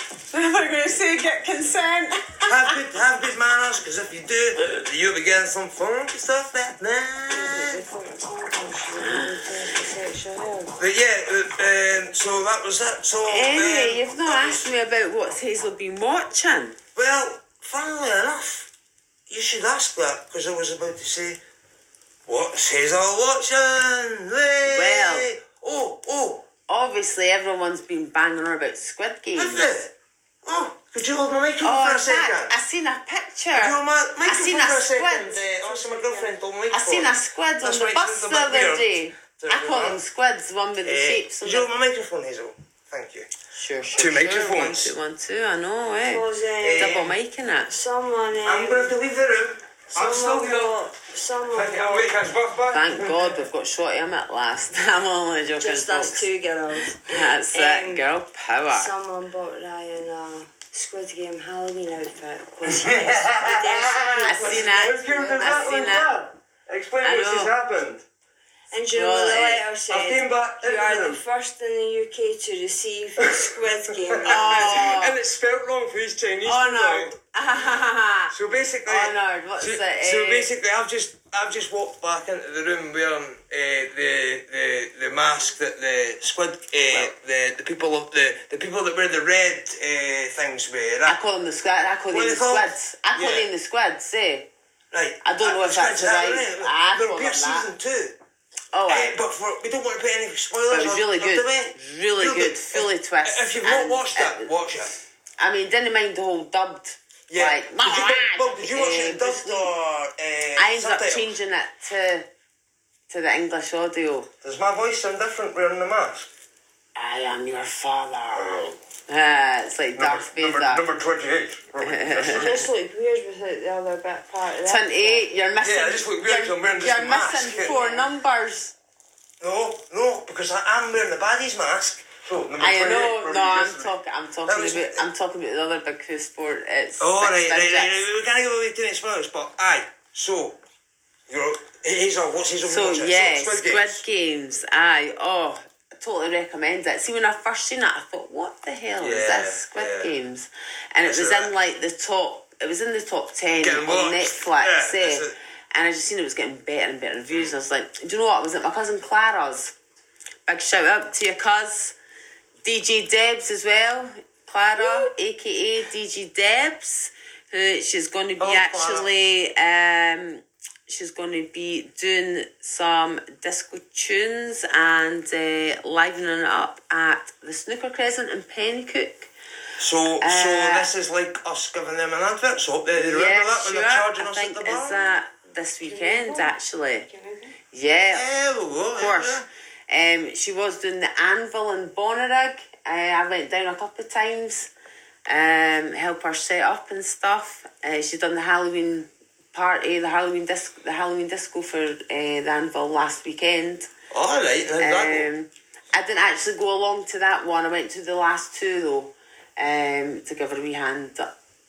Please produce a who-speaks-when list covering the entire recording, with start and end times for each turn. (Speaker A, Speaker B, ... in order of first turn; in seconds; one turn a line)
Speaker A: 0.3-2.8
Speaker B: 2.5-7.8
Speaker C: 7.3-10.8
Speaker A: 9.0-9.3
Speaker B: 10.8-14.7
Speaker A: 13.2-16.8
Speaker B: 16.9-18.7
Speaker B: 19.3-21.4
Speaker B: 22.2-26.5
Speaker A: 24.6-25.3
Speaker A: 26.7-29.7
Speaker B: 29.3-32.5
Speaker A: 31.6-35.5
Speaker B: 33.5-40.0
Speaker C: 35.5-36.3
Speaker A: 36.7-41.7
Speaker B: 40.8-43.3
Speaker A: 43.5-47.7
Speaker B: 43.9-44.9
Speaker C: 46.0-47.1
Speaker B: 46.6-47.1
Speaker C: 47.7-49.0
Speaker B: 48.4-50.8
Speaker C: 49.9-52.1
Speaker B: 51.5-53.4
Speaker A: 52.7-56.3
Speaker C: 55.6-58.1
Speaker A: 57.0-58.9
Speaker C: 58.7-66.1
Speaker B: 62.6-68.0
Speaker A: 64.2-66.1
Speaker A: 67.0-67.5
Speaker C: 68.7-75.0
Speaker A: 68.9-69.7
Speaker B: 69.9-71.2
Speaker B: 73.2-77.2
Speaker A: 74.2-75.2
Speaker A: 76.4-78.3
Speaker B: 78.3-91.2
Speaker A: 78.8-80.5
Speaker A: 91.0-94.5
Speaker B: 92.1-93.5
Speaker B: 94.9-98.2
Speaker A: 95.2-97.7
Speaker A: 98.7-99.2
Speaker B: 98.9-104.9
Speaker A: 100.7-104.5
Speaker A: 105.4-109.7
Speaker B: 107.3-111.3
Speaker A: 110.5-112.3
Speaker A: 113.1-114.3
Speaker B: 114.4-116.3
Speaker A: 117.0-120.8
Speaker B: 118.3-118.8
Speaker B: 119.9-122.7
Speaker A: 121.8-122.6
Speaker C: 122.2-125.3
Speaker A: 124.6-128.7
Speaker B: 125.6-127.8
Speaker C: 127.6-128.1
Speaker B: 129.4-133.9
Speaker A: 132.6-137.9
Speaker B: 134.4-135.1
Speaker B: 137.0-140.6
Speaker B: 141.3-144.0
Speaker A: 142.6-159.7
Speaker B: 149.0-150.1
Speaker B: 151.0-151.5
Speaker B: 153.5-155.3
Speaker A: 160.5-161.9
Speaker A: 162.6-179.3
Speaker C: 164.8-165.1
Speaker B: 168.4-169.1
Speaker B: 179.8-185.0
Speaker A: 180.2-180.9
Speaker A: 182.9-187.1
Speaker C: 185.8-187.6
Speaker A: 187.7-188.3
Speaker B: 188.1-189.5
Speaker A: 188.9-194.7
Speaker A: 195.2-203.9
Speaker B: 204.1-205.3
Speaker A: 204.8-211.3